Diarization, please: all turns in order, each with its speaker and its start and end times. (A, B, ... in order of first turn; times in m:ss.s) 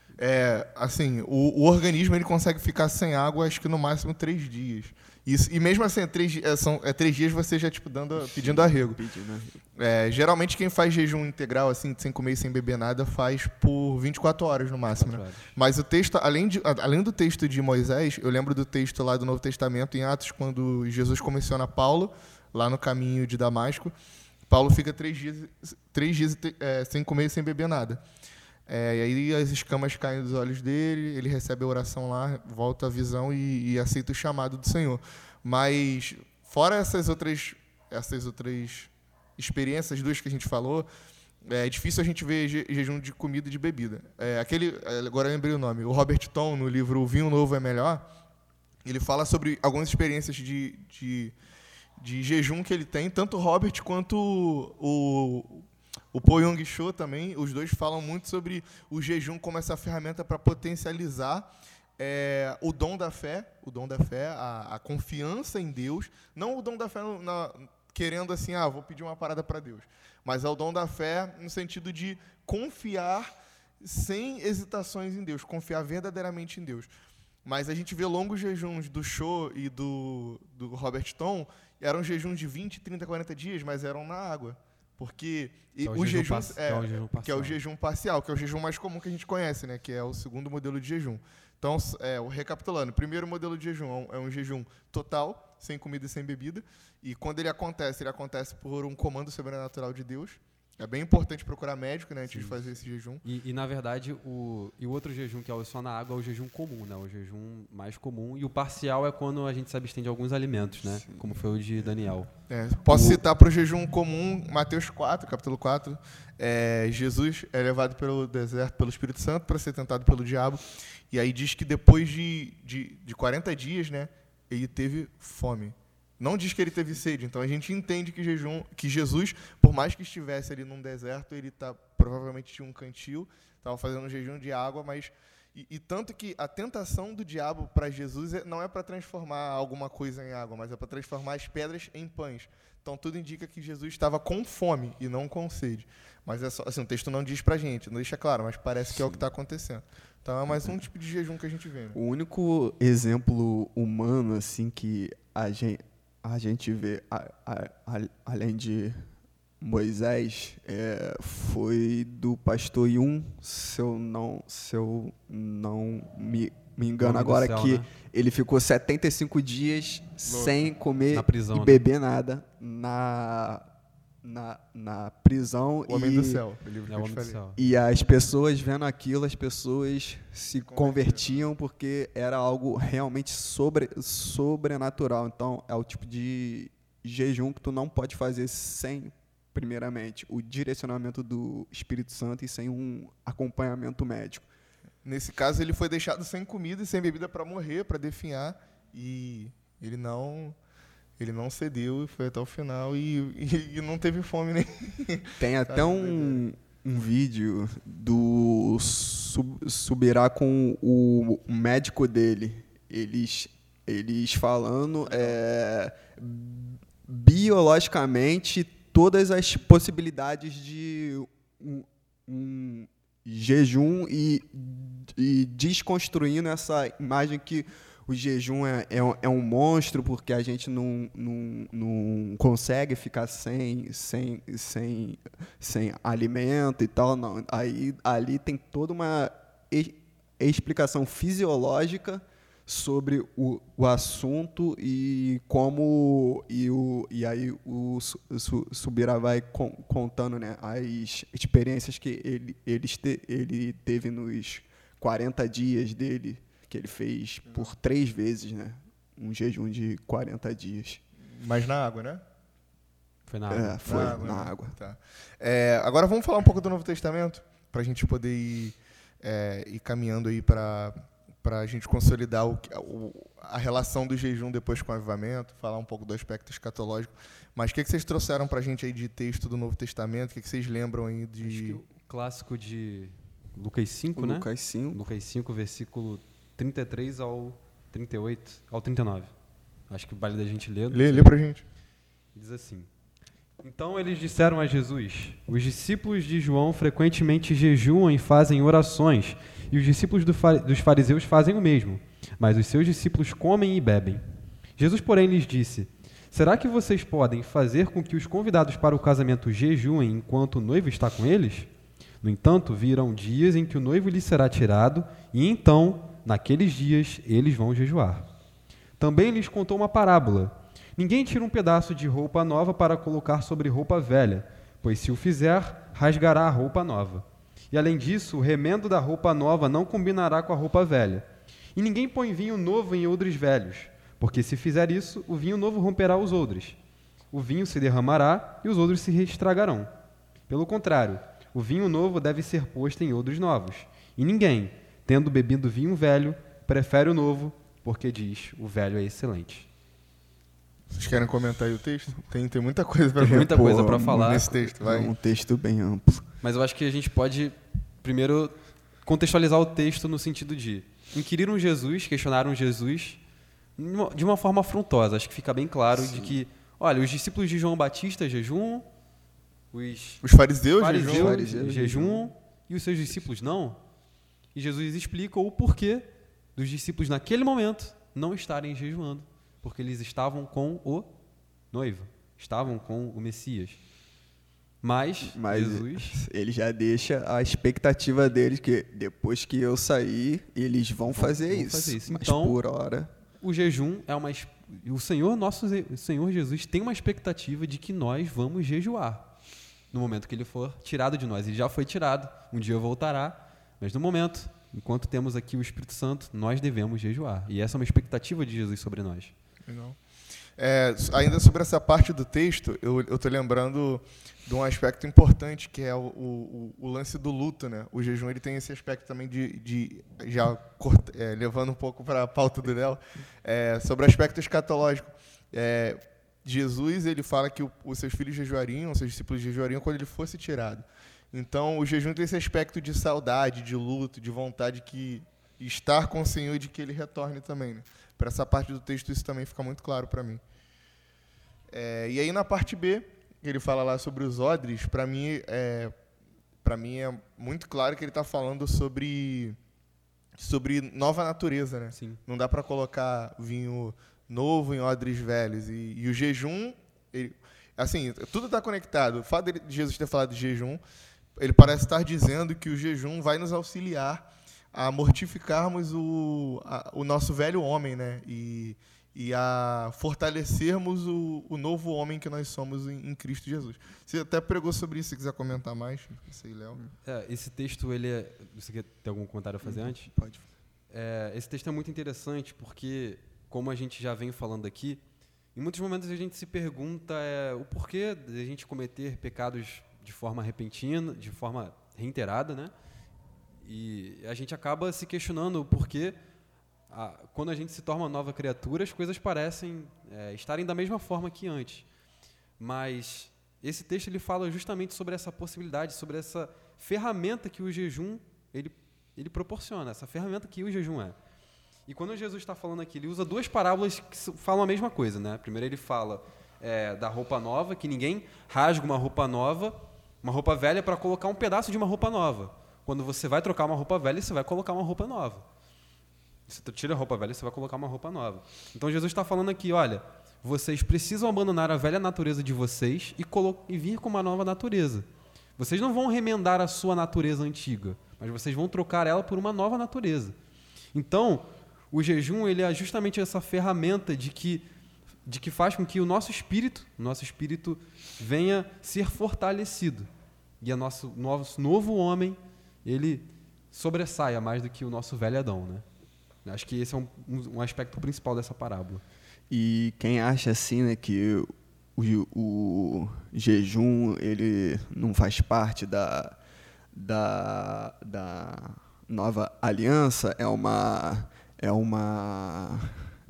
0:00.2-0:09.0 A
0:08.1-0:09.6 B
0:09.8-0:23.9 A
0:14.9-0:15.5 C
0:24.5-0:28.0 A
0:28.7-0:40.9 A
0:41.4-0:48.1 A
0:48.8-0:51.3 A
0:52.0-1:16.9 A
1:17.4-1:43.2 A
1:25.8-1:27.6 C
1:43.2-1:52.3 C
1:52.5-2:32.0 A
2:31.9-2:39.0 B
2:39.6-2:53.6 B
2:47.0-2:47.8 C
2:50.3-2:50.6 A
2:51.1-2:51.8 C
2:54.2-2:56.4 B
2:55.9-2:57.4 A
2:56.9-2:57.6 C
2:57.6-3:14.5 B
3:00.6-3:01.5 A
3:15.0-3:20.6 A
3:21.2-3:26.4 A
3:25.4-4:21.0 B
3:35.1-3:35.3 A
4:21.3-4:22.2 A
4:23.3-4:24.2 C
4:23.5-4:24.7 B
4:23.8-4:41.8 A
4:41.4-4:49.3 C
4:44.1-4:45.0 B
4:49.9-4:51.3 C
4:50.9-4:51.6 A
4:52.3-4:52.9 C
4:53.6-5:04.2 C
5:04.8-5:11.7 C
5:12.2-5:18.3 C
5:19.0-5:36.8 C
5:37.3-5:39.9 C
5:40.5-5:49.7 C
5:50.9-5:55.1 A
5:53.2-5:54.5 C
5:53.4-5:56.2 B
5:56.4-6:03.2 C
6:03.8-6:08.8 C
6:05.9-6:06.4 B
6:09.7-6:10.2 C
6:10.2-6:11.4 A
6:10.8-6:13.8 C
6:11.0-6:12.2 B
6:14.5-6:21.1 C
6:21.7-6:23.8 C
6:24.8-6:26.2 C
6:25.2-6:33.1 B
6:31.1-6:32.6 C
6:33.4-6:39.3 C
6:39.9-6:49.3 C
6:49.7-6:50.0 A
6:50.6-7:20.4 A
7:21.7-7:25.9 A
7:26.6-7:29.6 A
7:30.4-7:40.8 A
7:31.9-7:32.2 C
7:41.4-7:56.8 A
7:57.0-8:00.1 C
7:59.6-8:00.4 B
8:00.9-8:05.0 C
8:05.5-8:12.7 C
8:13.6-8:16.2 C
8:16.9-8:21.9 C
8:22.6-8:31.2 C
8:31.9-8:45.4 C
8:46.5-8:55.0 C
8:55.6-9:00.3 C
9:00.9-9:04.6 C
9:05.2-9:10.1 C
9:10.6-9:15.8 C
9:16.4-9:19.0 C
9:19.5-9:26.4 B
9:26.9-9:32.9 B